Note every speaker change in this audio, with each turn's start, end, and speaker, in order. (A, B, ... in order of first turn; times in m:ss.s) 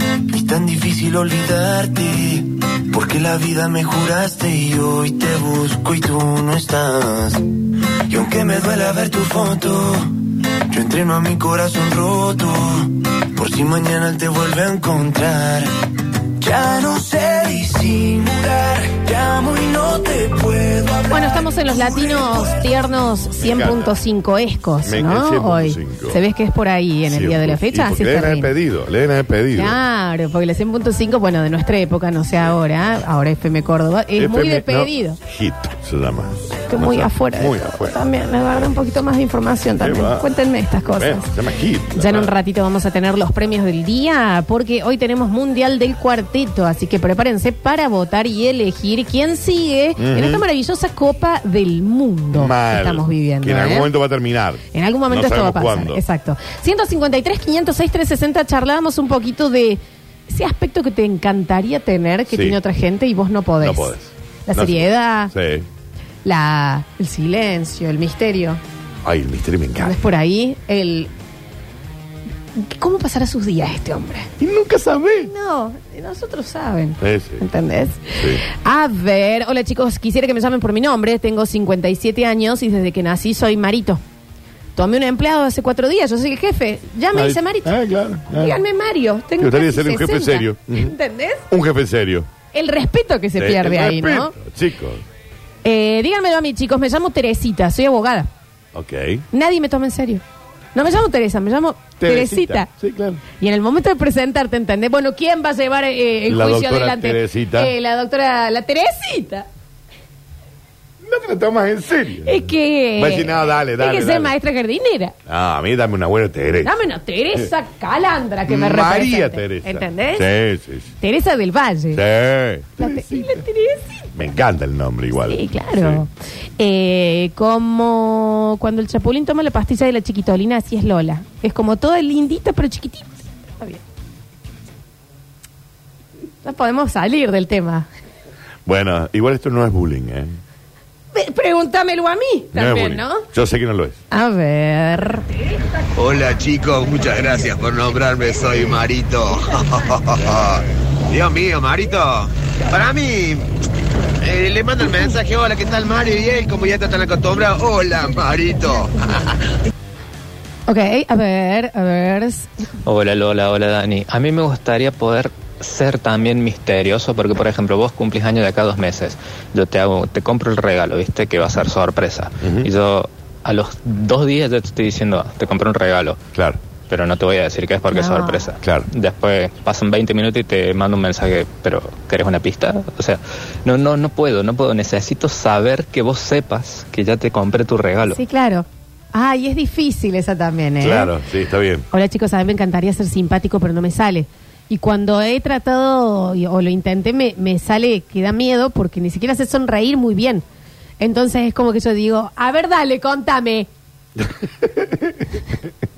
0:00.3-0:07.5 A
0:08.1-0:10.1 A
0:10.7-0:15.7 A
0:16.4-0:22.6 A
0:21.1-0:28.5 B
0:23.4-0:23.9 C
0:24.8-0:26.2 C
0:27.1-0:29.8 C
0:29.5-0:35.2 B
0:34.2-0:38.0 C
0:36.7-0:41.3 B
0:39.8-0:40.2 C
0:40.9-0:42.3 C
0:41.9-0:53.9 B
0:50.0-0:50.4 C
0:52.3-0:56.0 C
0:54.7-1:03.9 B
1:02.3-1:02.6 C
1:03.6-1:05.6 C
1:04.5-1:05.3 B
1:06.2-1:08.6 B
1:09.0-1:10.0 C
1:09.8-1:11.1 B
1:12.6-1:14.3 B
1:14.4-1:15.3 C
1:15.2-1:24.0 B
1:17.0-1:17.4 C
1:24.8-1:27.7 B
1:27.1-1:28.6 C
1:28.4-1:31.4 B
1:29.4-1:30.9 C
1:31.5-1:32.3 C
1:32.5-1:34.3 B
1:33.4-1:35.0 C
1:35.6-1:38.3 B
1:38.7-1:39.2 C
1:39.3-1:40.2 B
1:40.7-1:42.7 B
1:42.0-1:43.2 C
1:43.4-1:49.4 B
1:46.3-1:47.7 C
1:51.0-1:52.4 C
1:52.2-1:55.1 B
1:53.0-1:54.3 C
1:55.3-1:56.7 C
1:56.6-2:00.3 B
1:58.5-2:00.9 C
2:01.0-2:02.0 B
2:01.9-2:03.4 C
2:02.8-2:04.0 B
2:04.2-2:06.0 C
2:05.2-2:13.8 B
2:16.4-2:17.9 B
2:18.6-2:20.4 C
2:21.1-2:23.2 B
2:22.5-2:24.0 C
2:24.1-2:25.3 B
2:26.0-2:33.4 D
2:34.2-2:39.3 D
2:40.7-2:42.5 B
2:42.8-2:56.2 E
2:52.4-2:52.7 C
2:56.3-2:56.6 C
2:56.9-3:08.2 E
2:57.9-2:58.4 B
2:58.6-2:58.9 C
3:08.0-3:11.1 B
3:10.8-3:11.8 C
3:11.9-3:20.4 B
3:21.0-3:23.7 B